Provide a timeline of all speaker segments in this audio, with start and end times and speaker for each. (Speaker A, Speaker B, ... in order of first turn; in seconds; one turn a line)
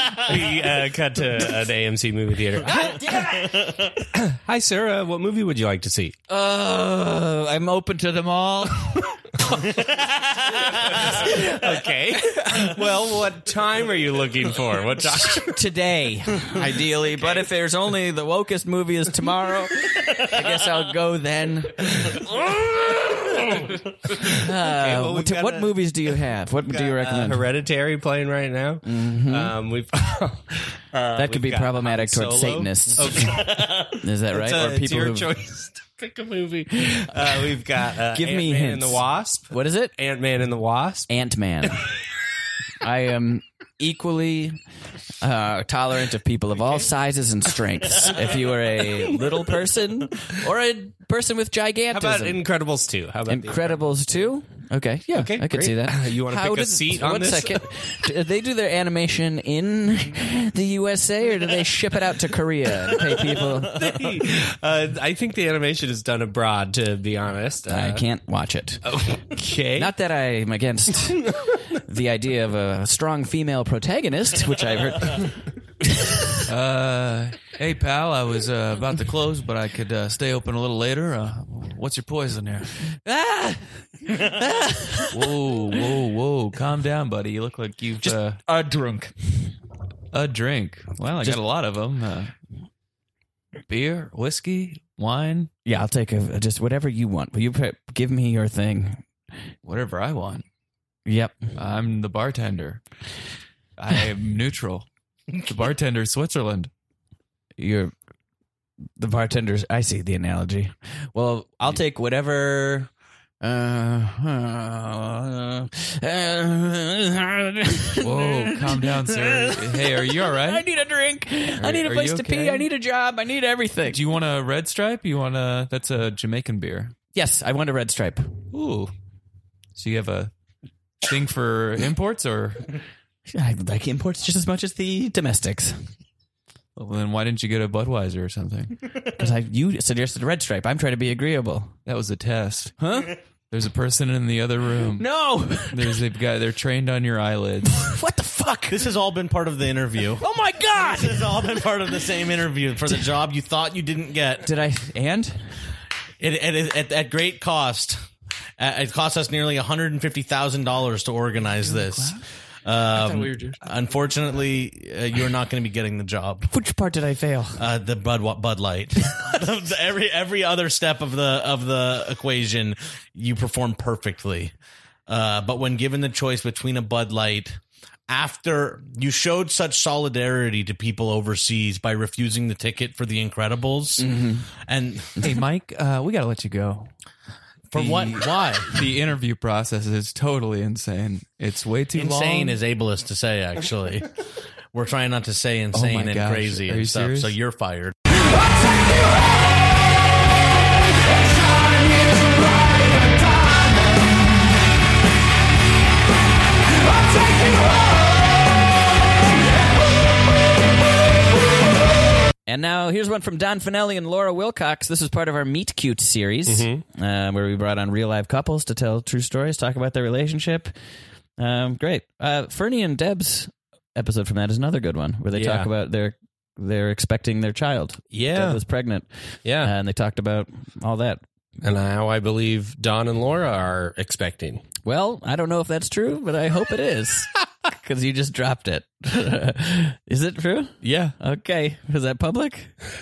Speaker A: 0.3-3.1
Speaker A: 4.1-6.1
Speaker B: 6.3-9.0
Speaker A: 11.0-15.5
Speaker B: 15.2-21.9
Speaker B: 24.2-27.5
Speaker A: 24.7-25.8
Speaker A: 26.7-41.1
Speaker B: 28.8-29.5
Speaker B: 31.1-35.3
Speaker B: 38.1-39.9
Speaker B: 41.1-41.8
Speaker B: 42.8-44.6
Speaker B: 45.2-52.4
Speaker A: 51.9-53.9
Speaker B: 53.3-64.0
Speaker A: 55.1-57.6
Speaker A: 63.7-68.0
Speaker B: 67.7-68.8
Speaker A: 68.8-69.9
Speaker B: 69.8-75.3
Speaker C: 76.5-83.0
Speaker B: 83.0-83.7
Speaker B: 84.3-85.1
Speaker C: 85.1-89.0
Speaker C: 90.1-92.3
Speaker C: 93.7-95.5
Speaker B: 95.6-99.0
Speaker C: 99.6-100.4
Speaker B: 101.1-101.5
Speaker C: 101.5-102.8
Speaker C: 103.8-104.8
Speaker C: 105.4-106.7
Speaker B: 107.6-107.9
Speaker B: 109.0-112.9
Speaker B: 113.4-124.0
Speaker C: 118.0-120.7
Speaker C: 121.6-122.7
Speaker C: 123.9-126.9
Speaker B: 127.1-128.3
Speaker C: 128.5-128.9
Speaker C: 129.8-130.3
Speaker C: 131.0-132.7
Speaker B: 133.3-135.9
Speaker C: 136.8-138.8
Speaker B: 139.2-141.7
Speaker C: 141.8-142.8
Speaker B: 142.8-143.1
Speaker C: 143.5-145.1
Speaker B: 145.0-146.0
Speaker C: 145.7-147.8
Speaker B: 147.7-148.8
Speaker D: 148.7-150.2
Speaker B: 150.2-151.6
Speaker D: 150.8-154.4
Speaker B: 154.4-155.5
Speaker D: 156.2-158.0
Speaker D: 158.6-166.5
Speaker C: 161.6-162.2
Speaker C: 162.9-163.6
Speaker B: 166.5-167.6
Speaker D: 167.6-174.5
Speaker D: 175.1-184.1
Speaker B: 184.0-184.5
Speaker D: 184.7-185.1
Speaker C: 185.2-186.9
Speaker D: 187.7-188.7
Speaker C: 187.7-192.6
Speaker D: 191.9-194.1
Speaker D: 194.7-197.9
Speaker C: 195.7-197.3
Speaker B: 212.4-220.7
Speaker A: 216.5-216.8
Speaker B: 221.4-231.2
Speaker A: 225.3-225.7
Speaker A: 228.1-228.6
Speaker A: 229.4-229.7
Speaker A: 231.6-234.6
Speaker B: 234.8-242.7